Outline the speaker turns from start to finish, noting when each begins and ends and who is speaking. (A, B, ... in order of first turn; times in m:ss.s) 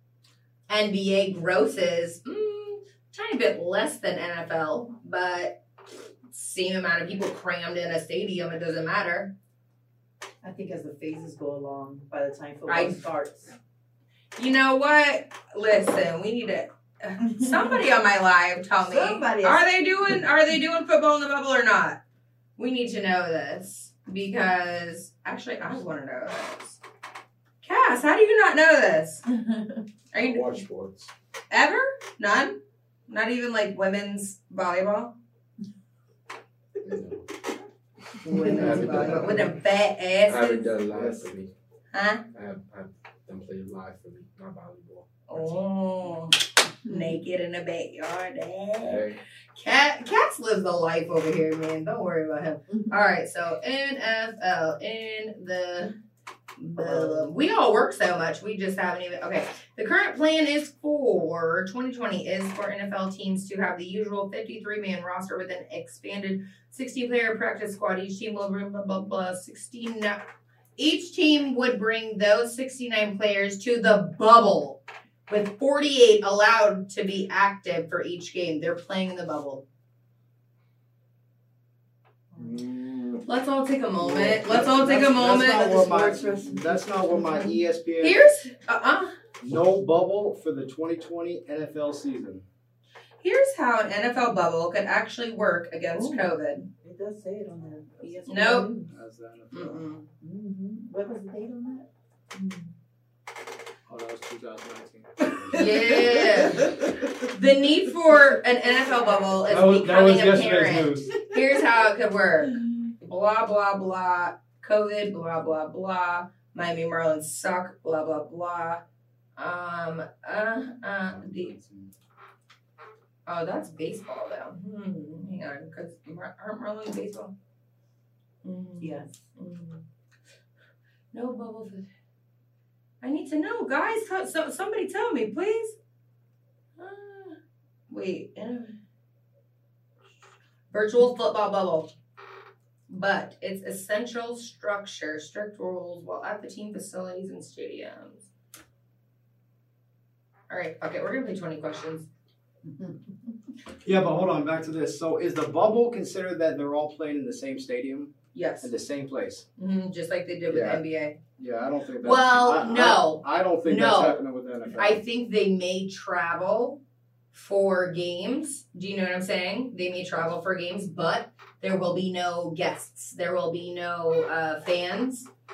0:00.7-0:05.6 A
0:06.3-0:09.3 A
0:10.4-0:13.5 B
0:12.7-0:13.0 A
0:14.4-0:22.0 A
0:17.2-0:17.8 B
0:18.8-0:19.6 B
0:22.6-0:26.8 A
0:27.6-0:29.2 A
0:29.3-0:29.8 B
0:30.1-0:30.5 A
0:30.1-0:31.1 C
0:31.5-0:32.6 A
0:33.1-0:35.2 A
0:36.8-0:37.2 C
0:38.2-0:39.6 C
0:38.2-0:40.7 A
0:38.4-0:38.9 B
0:38.7-0:39.4 D
0:40.3-0:41.5 C
0:40.9-0:41.3 D
0:41.9-0:42.2 A
0:42.3-0:45.7 C
0:45.3-0:55.9 A
0:46.9-0:47.1 B
0:48.8-0:49.2 C
0:56.6-1:10.2 A
0:56.8-0:57.3 B
1:10.8-1:19.6 A
1:22.3-1:22.6 B
1:22.4-1:23.2 D
1:23.3-1:25.7 A
1:24.0-1:28.2 D
1:25.2-1:27.2 B
1:28.0-1:29.2 A
1:29.4-1:32.4 D
1:33.2-1:36.7 A
1:35.9-1:36.3 B
1:36.8-1:38.9 B
1:38.3-1:38.7 A
1:38.9-1:39.9 D
1:39.5-1:40.1 A
1:40.2-1:42.7 B
1:43.9-1:46.7 D
1:45.5-1:47.1 B
1:45.5-1:46.7 A
1:47.3-1:58.8 A
1:49.5-1:51.1 D
1:59.4-2:01.6 A
2:01.1-2:01.9 D
2:03.3-2:07.3 A
2:08.4-2:09.8 A
2:08.8-2:09.2 B
2:11.1-2:11.9 A
2:13.0-2:15.8 A
2:16.8-2:17.4 A
2:17.9-2:18.8 A
2:20.7-2:21.9 A
2:22.9-2:28.3 A
2:30.5-2:32.1 A
2:32.6-2:33.0 B
2:33.8-2:39.4 D
2:38.3-2:38.7 A
2:39.6-2:41.2 A
2:40.5-2:40.8 D
2:41.4-2:45.0 D
2:42.0-2:44.2 A
2:44.8-2:46.8 A
2:47.3-2:55.3 A